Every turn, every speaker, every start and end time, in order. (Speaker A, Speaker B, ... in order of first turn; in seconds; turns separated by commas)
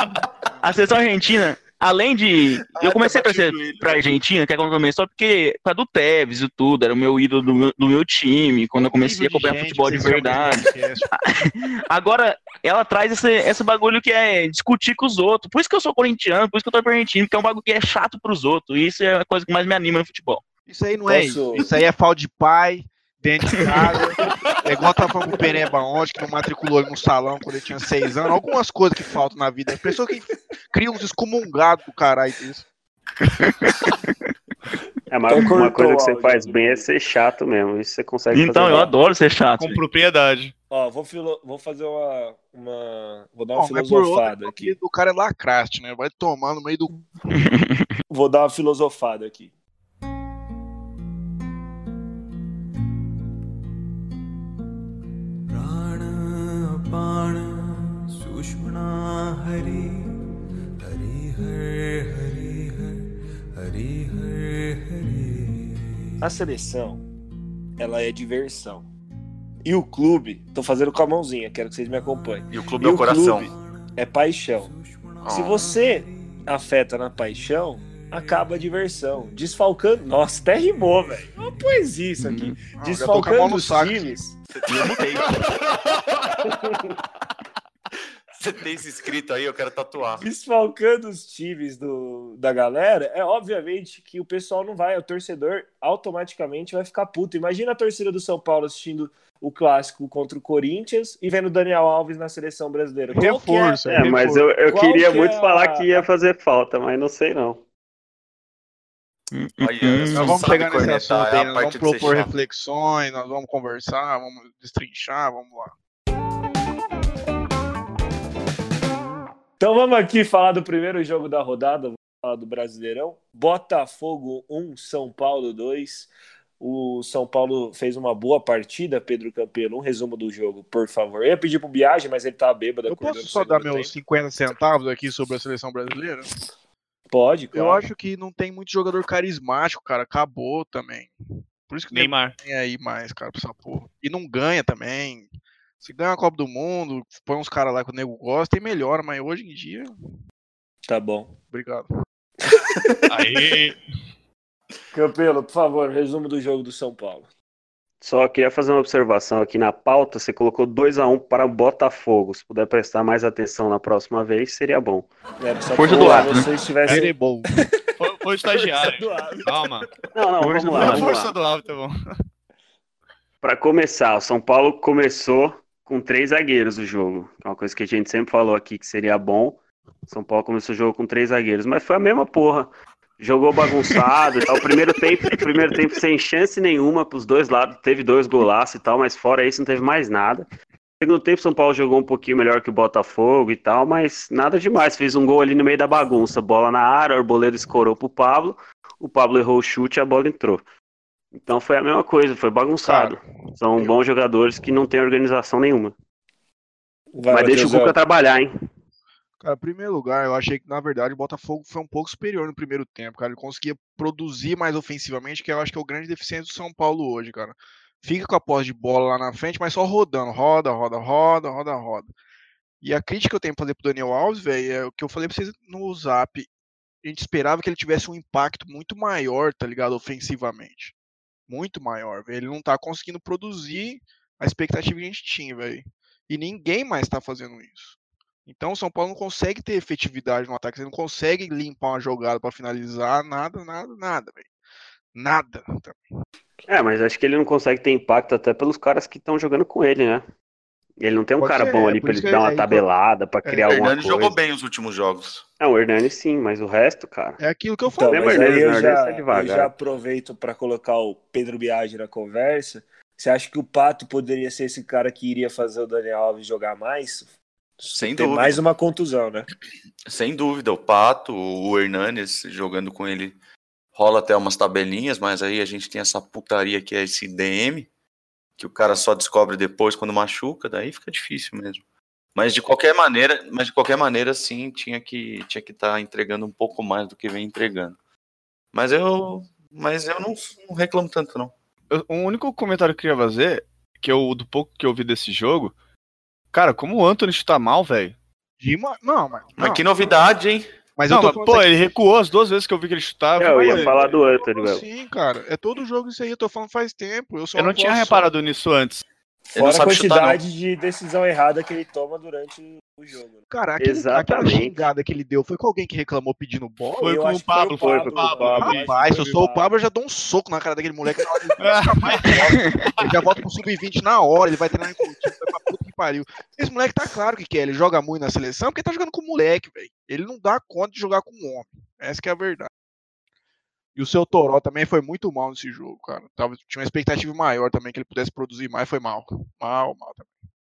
Speaker A: 0.6-20.4, Speaker B: 2.8-4.1, Speaker C: 8.8-11.1, Speaker C: 20.7-32.6, Speaker D: 21.1-21.7, Speaker A: 33.4-34.1, Speaker E: 35.1-38.9, Speaker D: 35.3-36.9, Speaker A: 38.3-39.8, Speaker F: 39.6-40.5, Speaker D: 40.7-44.7, Speaker C: 43.5-47.5, Speaker A: 47.3-47.9, Speaker D: 48.1-49.5, Speaker G: 55.5-60.1, Speaker G: 60.8-63.1, Speaker G: 63.6-65.8, Speaker D: 66.2-67.0, Speaker D: 67.8-68.9, Speaker D: 69.7-74.7, Speaker G: 72.0-72.6, Speaker B: 72.5-73.5, Speaker G: 73.3-73.7, Speaker G: 74.6-76.5, Speaker B: 75.2-75.6, Speaker D: 75.3-84.3, Speaker G: 77.7-79.4, Speaker G: 80.4-81.8, Speaker A: 82.2-82.5, Speaker C: 82.8-84.2, Speaker B: 84.5-85.3, Speaker A: 84.7-85.4, Speaker B: 88.4-90.2, Speaker D: 90.2-104.1, Speaker C: 103.1-104.5, Speaker E: 103.9-107.6, Speaker D: 104.7-106.1, Speaker A: 109.3-110.3, Speaker B: 109.6-112.3, Speaker C: 110.1-115.7, Speaker D: 119.6-133.9, Speaker C: 132.9-136.3, Speaker D: 137.1-137.9, Speaker C: 137.5-141.1, Speaker C: 141.7-145.3, Speaker F: 141.9-142.4, Speaker C: 145.8-149.9, Speaker D: 150.9-151.3, Speaker C: 151.5-151.9, Speaker F: 153.1-153.8, Speaker D: 154.9-157.3, Speaker E: 158.0-165.1, Speaker D: 165.4-167.1, Speaker A: 165.8-166.5, Speaker E: 165.9-166.3, Speaker C: 166.9-167.5, Speaker F: 168.0-169.9, Speaker D: 168.5-169.8, Speaker E: 170.2-171.3, Speaker A: 170.4-171.1, Speaker F: 170.4-171.9, Speaker E: 173.4-190.5, Speaker E: 191.0-200.6, Speaker E: 201.4-205.9, Speaker C: 202.8-203.2, Speaker D: 207.1-207.9, Speaker E: 207.3-208.5, Speaker C: 209.4-222.1, Speaker C: 222.8-226.5, Speaker C: 227.0-230.9, Speaker C: 231.5-244.5, Speaker C: 245.1-246.0, Speaker E: 246.7-250.2, Speaker E: 251.0-254.3, Speaker C: 251.4-252.8, Speaker C: 253.5-253.8, Speaker B: 253.6-255.4, Speaker E: 255.6-257.4, Speaker C: 257.4-258.9, Speaker D: 257.9-269.5, Speaker E: 258.1-259.7, Speaker B: 267.9-268.6, Speaker B: 270.1-273.4, Speaker B: 273.9-277.9, Speaker B: 278.6-281.8, Speaker B: 282.4-288.0, Speaker B: 288.7-291.5, Speaker F: 291.9-295.7, Speaker F: 296.5-298.1, Speaker C: 298.6-299.9, Speaker B: 299.6-300.7, Speaker C: 301.0-301.9, Speaker F: 301.1-304.1, Speaker E: 303.4-304.9, Speaker C: 303.4-308.3, Speaker F: 307.6-309.0, Speaker D: 309.5-313.4, Speaker B: 309.5-310.4, Speaker C: 313.5-317.2, Speaker E: 313.8-314.9, Speaker F: 317.0-318.9, Speaker D: 317.0-319.7, Speaker E: 317.8-318.5, Speaker C: 318.4-332.7, Speaker F: 321.6-322.4, Speaker A: 322.3-322.9, Speaker C: 333.9-340.3